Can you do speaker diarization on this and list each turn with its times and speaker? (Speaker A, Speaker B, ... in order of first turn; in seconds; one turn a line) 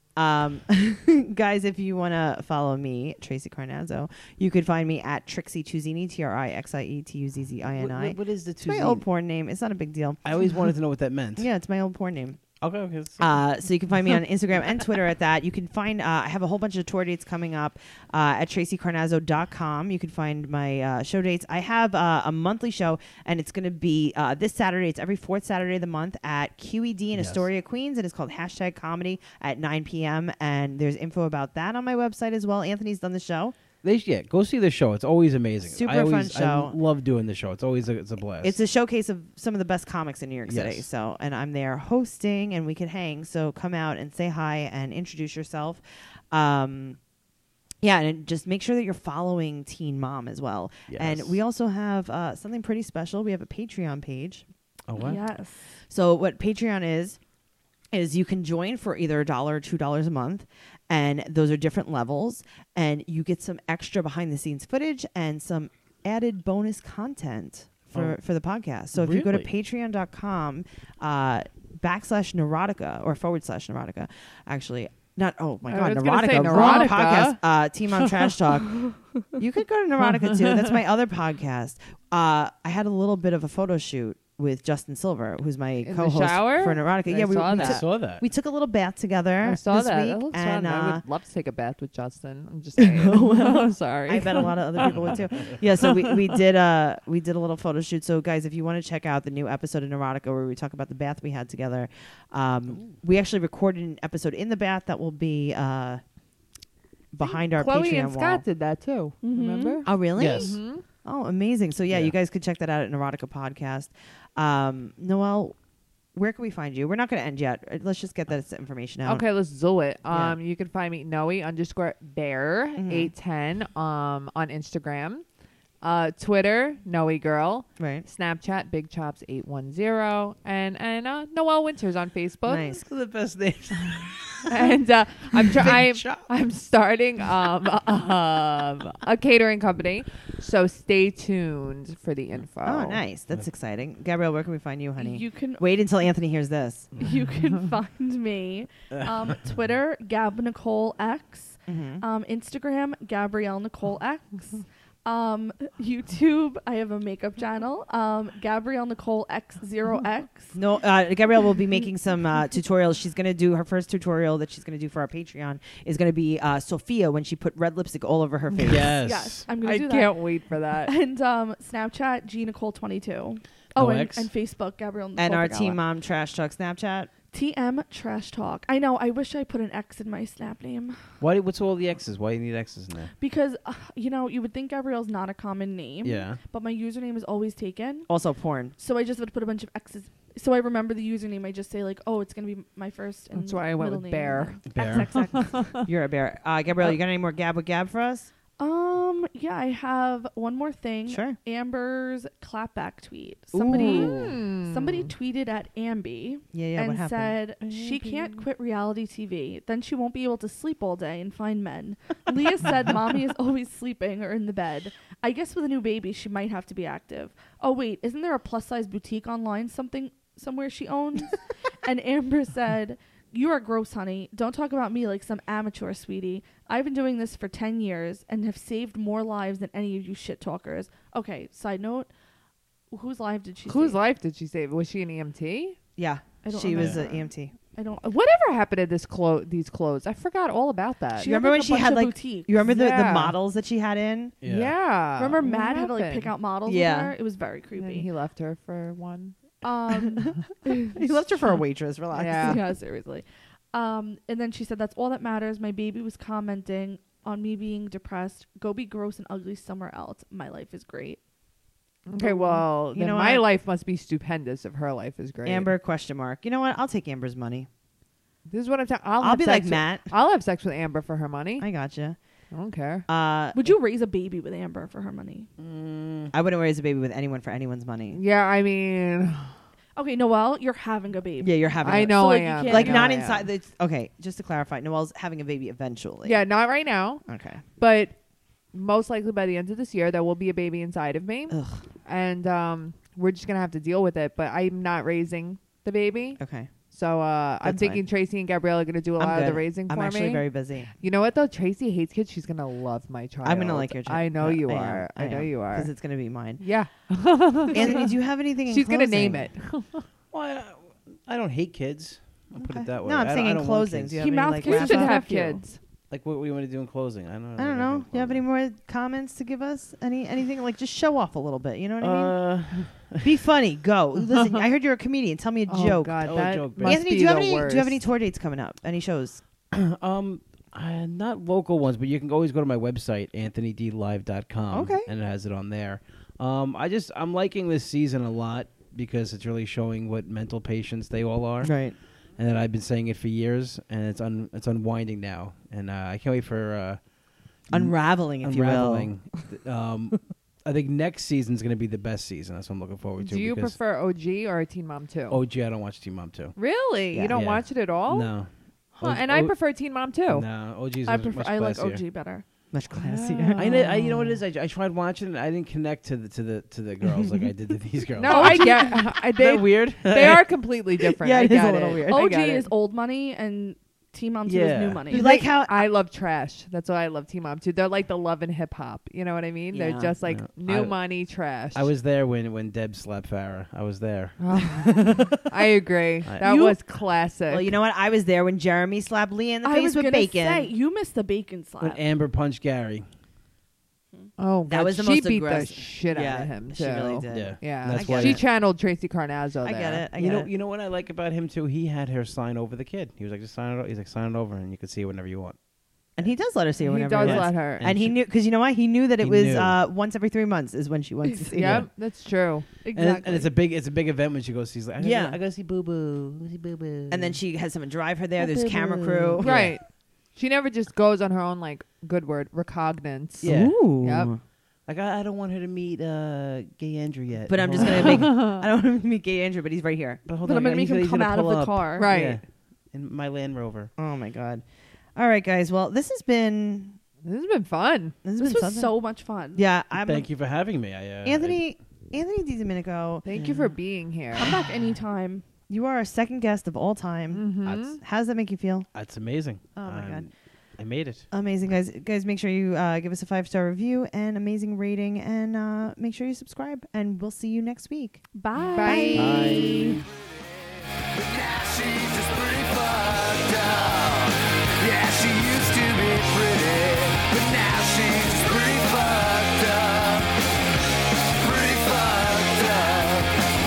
Speaker A: 0.1-10.2
Speaker B: 7.8-9.0
Speaker B: 10.2-11.5
Speaker A: 11.3-12.4
Speaker B: 12.6-13.4
Speaker A: 13.2-33.5
Speaker B: 27.1-27.4
Speaker B: 33.8-38.6
Speaker A: 35.6-36.8
Speaker A: 38.4-47.0
Speaker B: 40.5-40.9
Speaker A: 47.8-54.4
Speaker B: 50.9-51.4
Speaker B: 54.9-55.2
Speaker C: 55.0-55.8
Speaker A: 55.9-57.2
Speaker A: 57.9-91.0
Speaker B: 68.9-69.5
Speaker D: 75.7-77.4
Speaker D: 80.1-80.7
Speaker D: 85.8-87.8
Speaker B: 87.6-88.2
Speaker D: 89.4-95.2
Speaker A: 92.8-106.0
Speaker B: 94.8-95.6
Speaker D: 95.8-96.1
Speaker A: 107.1-108.4
Speaker D: 107.2-110.8
Speaker C: 109.2-109.8
Speaker A: 109.8-115.5
Speaker B: 110.2-110.6
Speaker A: 116.1-119.2
Speaker D: 119.0-125.2
Speaker A: 120.1-120.4
Speaker A: 122.8-123.1
Speaker D: 125.8-132.7
Speaker A: 127.8-128.1
Speaker A: 132.4-132.8
Speaker B: 132.7-134.7
Speaker D: 134.4-143.0
Speaker B: 135.5-136.3
Speaker A: 142.6-146.9
Speaker C: 145.0-145.6
Speaker C: 147.0-160.5
Speaker A: 151.7-152.0
Speaker A: 160.5-169.0
Speaker B: 168.6-169.4
Speaker C: 168.8-170.2
Speaker D: 169.6-170.9
Speaker C: 170.9-175.8
Speaker B: 173.8-174.3
Speaker A: 175.2-177.1
Speaker C: 177.3-181.0
Speaker B: 181.2-183.1
Speaker C: 183.2-188.1
Speaker B: 186.0-186.4
Speaker A: 188.1-188.7
Speaker C: 188.8-195.5
Speaker D: 193.3-195.8
Speaker B: 194.7-195.1
Speaker A: 195.8-198.3
Speaker C: 198.6-232.1
Speaker A: 201.1-201.4
Speaker A: 203.5-204.4
Speaker D: 203.7-205.1
Speaker A: 206.5-207.4
Speaker D: 207.6-208.4
Speaker C: 232.9-234.0
Speaker D: 233.7-235.8
Speaker A: 236.0-237.5
Speaker C: 236.4-238.1
Speaker D: 238.0-241.3
Speaker C: 241.2-242.5
Speaker A: 241.2-244.3
Speaker D: 242.6-243.3
Speaker B: 244.4-244.7
Speaker D: 244.4-246.3
Speaker C: 245.2-248.1
Speaker A: 246.7-247.1
Speaker D: 247.8-249.3
Speaker C: 249.6-250.9
Speaker A: 250.9-252.6
Speaker D: 252.1-252.6
Speaker C: 252.4-261.2
Speaker D: 262.1-265.7
Speaker C: 262.2-262.6
Speaker A: 262.9-263.4
Speaker A: 265.4-267.7
Speaker D: 268.5-271.7
Speaker A: 269.2-270.1
Speaker A: 271.6-272.2
Speaker D: 272.5-273.1
Speaker A: 273.1-273.6
Speaker C: 273.5-275.5
Speaker B: 275.6-276.3
Speaker A: 276.3-278.2
Speaker D: 278.1-279.5
Speaker C: 279.9-283.1
Speaker A: 281.4-286.4
Speaker D: 281.8-283.5
Speaker D: 286.2-287.2
Speaker A: 287.2-287.6
Speaker D: 287.8-288.1
Speaker D: 288.7-300.4
Speaker A: 291.5-291.8
Speaker A: 296.4-296.7
Speaker A: 297.6-298.0
Speaker A: 299.2-300.9
Speaker D: 301.0-305.9
Speaker A: 303.4-306.6
Speaker D: 306.6-308.1
Speaker A: 307.7-309.5
Speaker D: 308.7-310.1
Speaker B: 310.3-314.2
Speaker A: 312.6-315.2
Speaker C: 314.2-315.6
Speaker D: 314.6-315.8
Speaker B: 316.1-318.4
Speaker A: 317.6-322.4
Speaker B: 322.0-323.3
Speaker A: 323.2-329.4
Speaker D: 325.7-328.0
Speaker B: 326.2-327.0
Speaker B: 329.7-341.7
Speaker A: 334.7-335.1
Speaker A: 341.6-341.9
Speaker B: 342.4-347.0
Speaker B: 347.7-353.8
Speaker A: 347.7-349.4
Speaker D: 353.2-355.4
Speaker B: 355.3-356.6
Speaker D: 356.6-358.3
Speaker A: 357.1-357.4
Speaker B: 357.3-359.5
Speaker D: 359.0-360.4
Speaker B: 360.3-362.0
Speaker C: 361.1-362.4
Speaker A: 362.7-364.3
Speaker D: 362.9-364.2
Speaker B: 363.6-370.5
Speaker A: 367.0-367.4
Speaker D: 368.2-372.7
Speaker C: 368.3-369.1
Speaker A: 371.2-372.2
Speaker C: 372.1-375.3
Speaker B: 374.4-375.1
Speaker A: 375.1-375.9
Speaker D: 375.1-381.9
Speaker A: 379.7-380.2
Speaker B: 380.3-380.9
Speaker B: 381.7-384.4
Speaker D: 384.4-387.7
Speaker C: 386.4-386.8
Speaker A: 387.5-390.7
Speaker C: 389.6-392.0
Speaker B: 391.8-393.1
Speaker D: 394.4-400.1
Speaker A: 394.7-398.4
Speaker B: 397.3-398.4
Speaker A: 399.6-400.5
Speaker B: 400.2-405.6
Speaker A: 406.2-411.9
Speaker D: 406.8-407.8
Speaker B: 407.2-408.2
Speaker B: 409.2-409.8
Speaker C: 411.2-411.5
Speaker D: 411.5-412.7
Speaker B: 411.6-411.9
Speaker C: 412.8-413.5
Speaker B: 412.9-417.4
Speaker A: 415.0-415.4
Speaker A: 417.1-419.7
Speaker B: 418.4-419.8
Speaker D: 419.4-424.3
Speaker A: 423.4-424.4
Speaker B: 423.4-423.7
Speaker B: 424.9-428.4
Speaker A: 427.5-430.2
Speaker D: 427.8-428.6
Speaker B: 430.2-433.9
Speaker C: 430.4-432.1
Speaker D: 432.0-432.4
Speaker A: 434.0-434.6
Speaker A: 435.1-437.0
Speaker D: 437.2-438.1
Speaker A: 438.2-438.9
Speaker C: 438.4-439.6
Speaker A: 439.5-440.3
Speaker B: 440.0-441.6
Speaker A: 441.2-443.3
Speaker D: 443.2-444.6
Speaker B: 443.3-443.7
Speaker C: 444.3-445.4
Speaker A: 445.7-448.9
Speaker D: 447.3-448.0
Speaker B: 447.6-447.9
Speaker B: 448.9-451.3
Speaker A: 449.8-450.3
Speaker A: 451.3-458.2
Speaker C: 458.3-459.7
Speaker D: 458.7-459.9
Speaker A: 458.8-459.8
Speaker B: 459.1-460.0
Speaker E: 461.0-470.3
Speaker E: 471.4-473.4